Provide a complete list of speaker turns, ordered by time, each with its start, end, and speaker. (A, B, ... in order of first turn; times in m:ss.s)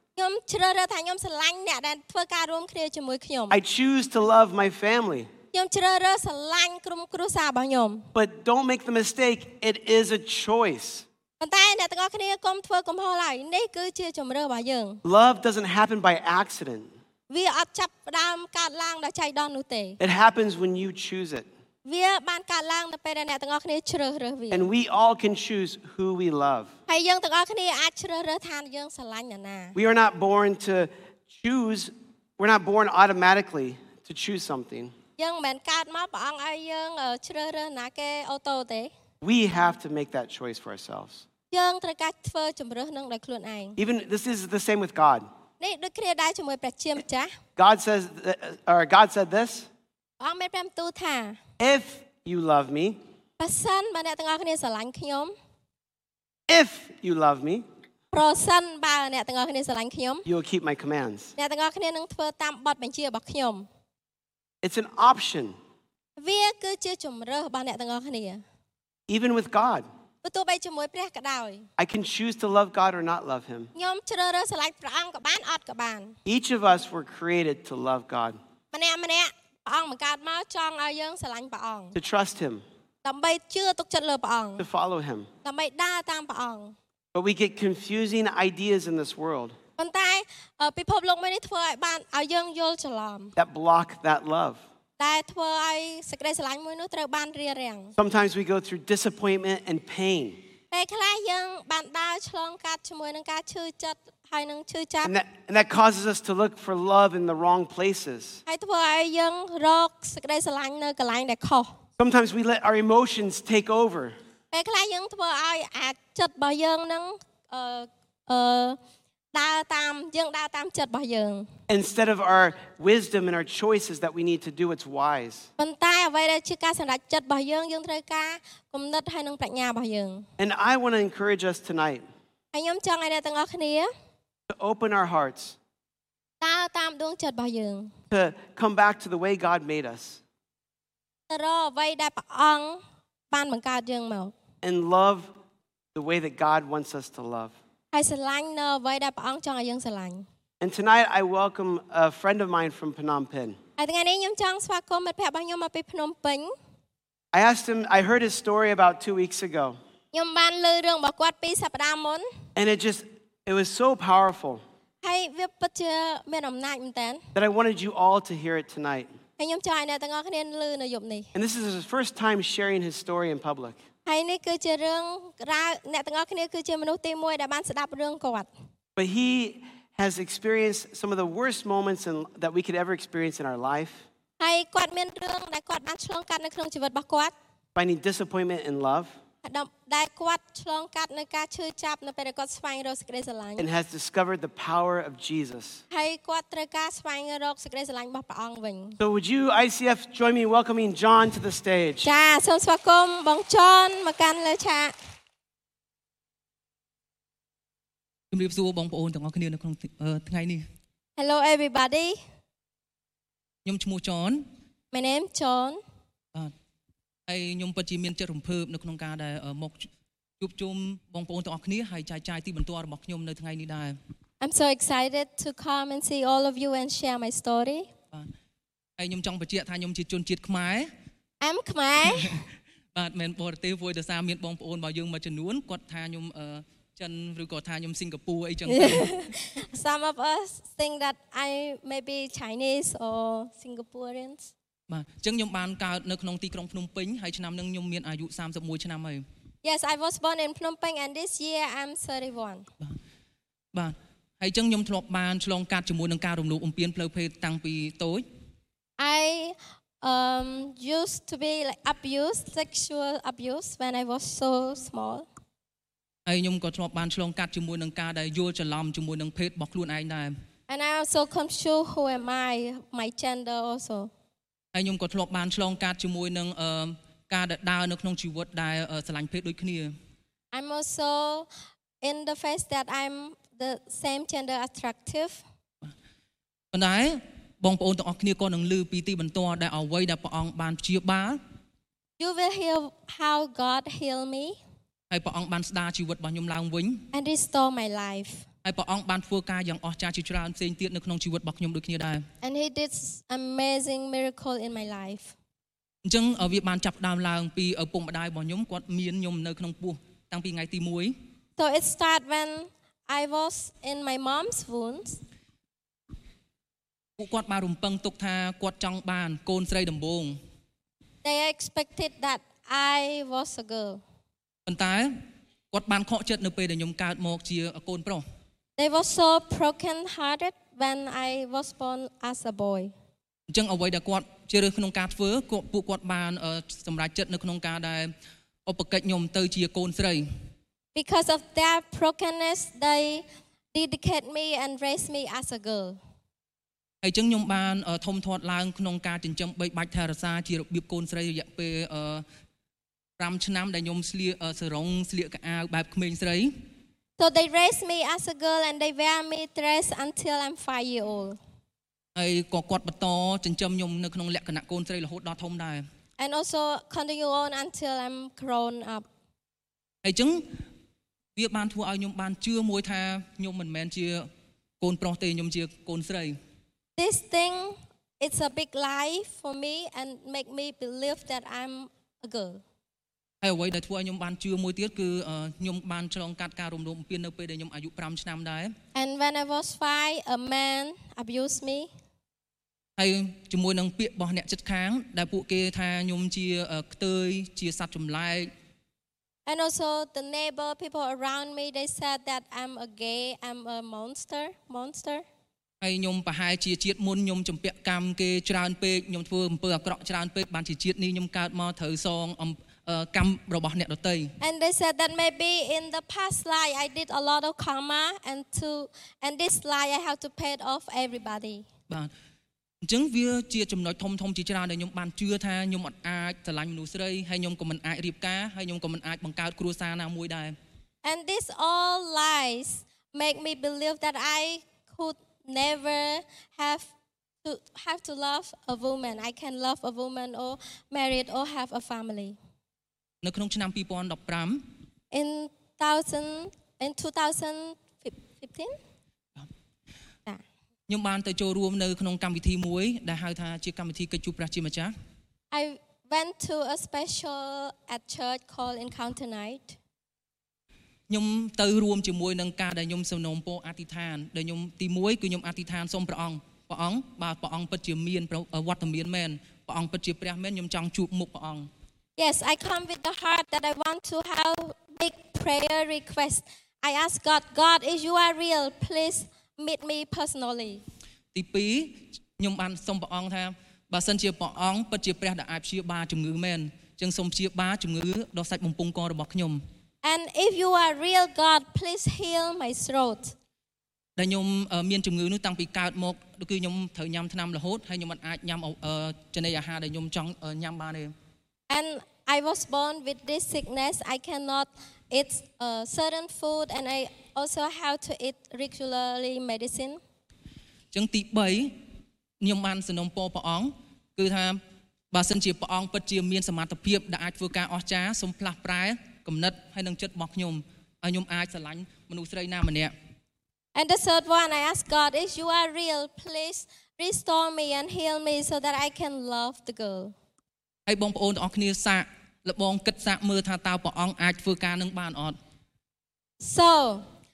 0:00.2-0:03.6 A
0:03.5-0:05.3 B
0:05.5-0:08.1 A
0:08.2-0:11.1 B
0:11.4-0:15.0 A
0:15.0-0:16.9 B
0:17.3-0:20.0 A
0:20.0-0:21.5 B
0:21.8-0:24.7 A
0:24.5-0:26.7 B
0:26.9-0:29.8 A
0:29.8-0:35.0 B
0:35.2-0:38.9 A
0:39.2-0:41.3 B
0:41.5-0:43.8 A
0:43.8-0:45.3 B
0:45.6-0:47.3 A
0:47.6-0:49.7 B
0:50.2-0:51.4 A
0:51.6-0:53.0 B
0:53.4-0:55.4 A
0:56.5-0:57.6 B
0:58.1-1:00.2 A
1:00.3-1:01.4 B
1:01.4-1:03.7 A
1:04.6-1:05.6 B
1:06.2-1:08.4 A
1:09.1-1:09.9 B
1:10.2-1:11.7 A
1:11.8-1:13.7 B
1:13.8-1:16.2 A
1:16.3-1:18.4 B
1:18.7-1:22.0 A
1:22.0-1:22.6 B
1:23.0-1:24.7 A
1:24.6-1:25.3 B
1:25.4-1:26.8 A
1:27.1-1:29.6 B
1:29.8-1:33.4 A
1:33.4-1:34.6 B
1:35.0-1:37.9 A
1:38.0-1:40.4 B
1:40.7-1:45.1 A
1:45.0-1:48.4 B
1:48.5-1:51.8 A
1:52.0-1:54.2 B
1:54.5-1:58.8 A
1:59.3-2:01.5 A
2:01.7-2:05.5 B
2:05.6-2:10.3 A
2:10.4-2:12.0 B
2:12.5-2:13.9 A
2:14.5-2:15.6 B
2:16.4-2:17.9 A
2:18.1-2:20.2 B
2:21.3-2:24.4 A
2:24.6-2:25.3 B
2:25.9-2:27.5 B
2:27.9-2:30.3 A
2:30.6-2:33.6 B
2:33.8-2:36.5 A
2:37.3-2:39.8 B
2:40.1-2:42.3 A
2:42.6-2:44.6 B
2:45.0-2:47.2 A
2:47.4-2:49.1 B
2:49.4-2:51.3 A
2:51.4-2:53.8 B
2:54.1-2:58.5 A
2:59.0-3:04.0 B
3:04.4-3:07.3 A
3:07.8-3:09.2 B
3:09.4-3:13.7 A
3:13.6-3:15.8 B
3:15.9-3:19.0 A
3:19.0-3:22.1 B
3:22.0-3:24.9 A
3:28.3-3:30.6 C
3:31.2-3:32.2 A
3:33.6-3:34.4 C
3:34.9-3:35.8 A
3:37.3-3:39.9 C
3:40.4-3:44.0 C
3:44.4-3:47.9 A
3:49.0-3:50.9 C
3:51.4-3:52.4 A
3:52.9-3:59.1 C
3:58.7-4:04.5 A
4:04.9-4:09.2 C
4:09.6-4:12.7 A
4:13.7-4:18.2 C
4:19.0-4:25.3 A
4:26.3-4:30.3 C
4:30.7-4:34.1 A
4:34.7-4:39.9 C
4:40.5-4:41.5 A
4:42.0-4:45.4 A
4:46.7-4:51.4 C
4:52.2-4:54.6 A
4:55.1-4:57.0 C
4:57.1-4:58.5 A
4:58.6-5:02.2 C
5:02.4-5:05.3 A
5:06.0-5:11.1 C
5:11.6-5:15.2 A
5:17.2-5:20.4 C
5:21.2-5:24.0 A
5:24.7-5:25.1 C
5:25.7-5:28.2 C
5:28.8-5:32.9 A
5:33.5-5:38.1 C
5:38.7-5:40.3 C
5:41.0-5:46.0 A
5:47.0-5:52.2 C
5:53.2-5:56.5 C
5:57.2-6:01.4 A
6:02.2-6:05.8 C
6:06.2-6:09.1 A
6:10.0-6:10.4 C
6:11.4-6:14.3 C
6:14.8-6:16.4 C
6:17.0-6:22.6 A
6:23.4-6:28.7 C
6:29.0-6:31.9 A
6:33.0-6:38.5 C
6:39.5-6:45.2 A
6:45.8-6:54.3 C
6:54.4-7:01.7 A
7:02.8-7:10.6 C
7:11.0-7:16.9 A
7:17.4-7:22.4 A
7:23.2-7:24.6 C
7:25.1-7:28.8 A
7:30.9-7:34.9 C
7:35.5-7:39.8 A
7:41.1-7:51.7 C
7:52.2-8:00.8 A
8:01.3-8:09.6 C
8:10.0-8:13.3 A
8:14.2-8:21.1 C
8:21.7-8:30.0 A
8:30.9-8:31.7 C
8:32.4-8:34.6 C
8:35.1-8:42.9 C
8:43.8-8:50.1 A
8:50.9-8:55.4 C
8:56.4-8:57.0 A